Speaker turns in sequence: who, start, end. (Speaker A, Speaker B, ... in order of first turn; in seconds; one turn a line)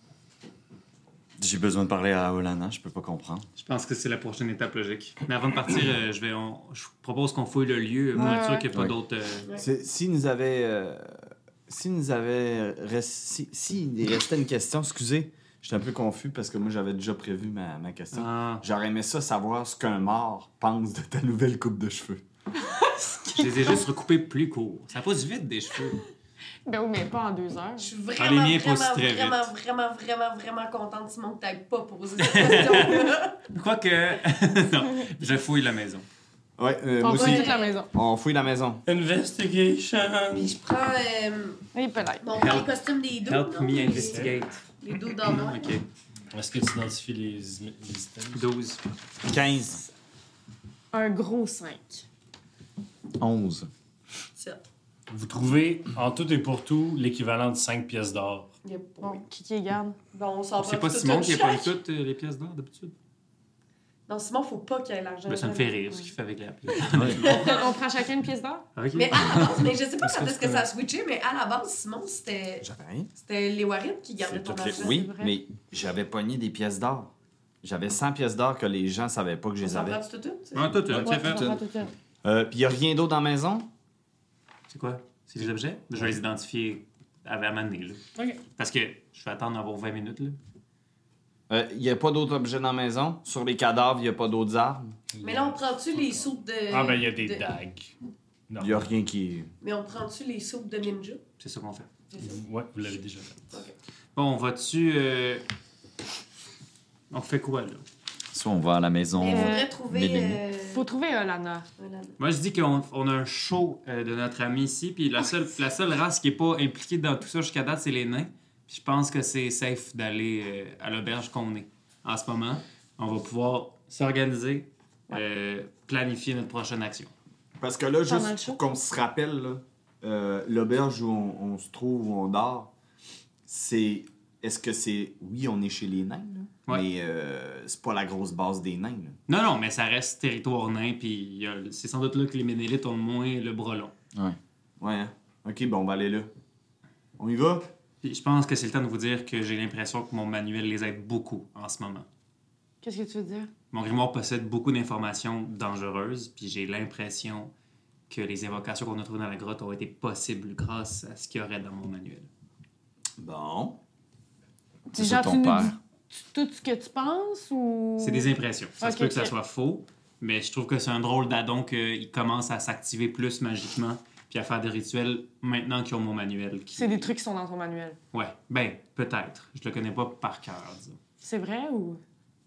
Speaker A: 1.4-3.5
Speaker B: 3.6-9.5
Speaker C: 8.2-8.7
Speaker D: 9.6-22.2
Speaker E: 18.2-18.6
Speaker C: 22.8-23.5
Speaker B: 23.3-26.0
Speaker C: 26.7-27.9
Speaker F: 27.8-33.4
Speaker B: 28.2-29.5
Speaker B: 32.2-36.0
Speaker D: 36.6-38.8
Speaker C: 37.0-37.9
Speaker F: 37.0-37.9
Speaker E: 38.9-40.6
Speaker F: 40.5-41.6
Speaker C: 41.7-42.3
Speaker F: 42.2-45.8
Speaker B: 42.4-42.7
Speaker B: 43.2-44.6
Speaker B: 45.2-45.9
Speaker E: 46.3-48.5
Speaker B: 48.3-48.8
Speaker D: 49.2-49.9
Speaker C: 50.9-52.1
Speaker A: 53.2-53.7
Speaker F: 54.4-54.6
Speaker E: 55.1-58.5
Speaker F: 58.6-59.2
Speaker C: 59.0-60.0
Speaker F: 60.1-61.7
Speaker B: 60.6-62.9
Speaker F: 64.1-65.8
Speaker B: 65.3-67.7
Speaker A: 66.9-67.2
Speaker C: 67.2-68.7
Speaker F: 67.2-67.7
Speaker B: 68.8-69.7
Speaker F: 68.9-72.7
Speaker D: 72.6-73.1
Speaker F: 73.2-75.1
Speaker D: 74.3-77.1
Speaker C: 74.7-75.4
Speaker D: 77.6-80.0
Speaker F: 79.6-81.1
Speaker B: 80.5-81.5
Speaker D: 80.9-81.5
Speaker C: 81.0-81.9
Speaker D: 82.2-83.7
Speaker B: 84.7-88.0
Speaker B: 88.6-90.4
Speaker D: 91.5-95.0
Speaker E: 95.1-97.9
Speaker F: 95.2-97.5
Speaker E: 98.5-98.9
Speaker D: 98.6-99.5
Speaker F: 99.6-101.2
Speaker B: 101.4-101.9
Speaker F: 102.1-102.4
Speaker E: 102.2-103.6
Speaker B: 104.2-105.5
Speaker B: 107.1-107.8
Speaker A: 108.3-110.4
Speaker F: 109.2-110.8
Speaker C: 109.2-109.7
Speaker C: 110.6-111.7
Speaker F: 111.8-112.2
Speaker B: 112.2-127.1
Speaker D: 127.6-132.7
Speaker C: 128.1-128.6
Speaker D: 133.5-139.2
Speaker B: 139.3-143.9
Speaker D: 144.8-146.3
Speaker D: 147.2-147.7
Speaker B: 148.0-152.1
Speaker C: 152.8-153.5
Speaker B: 153.7-157.5
Speaker B: 158.1-162.3
Speaker D: 163.2-163.8
Speaker C: 164.9-168.3
Speaker A: 164.9-165.8
Speaker B: 168.0-177.1
Speaker C: 168.8-169.3
Speaker C: 176.8-178.0
Speaker B: 178.1-181.0
Speaker C: 181.2-182.0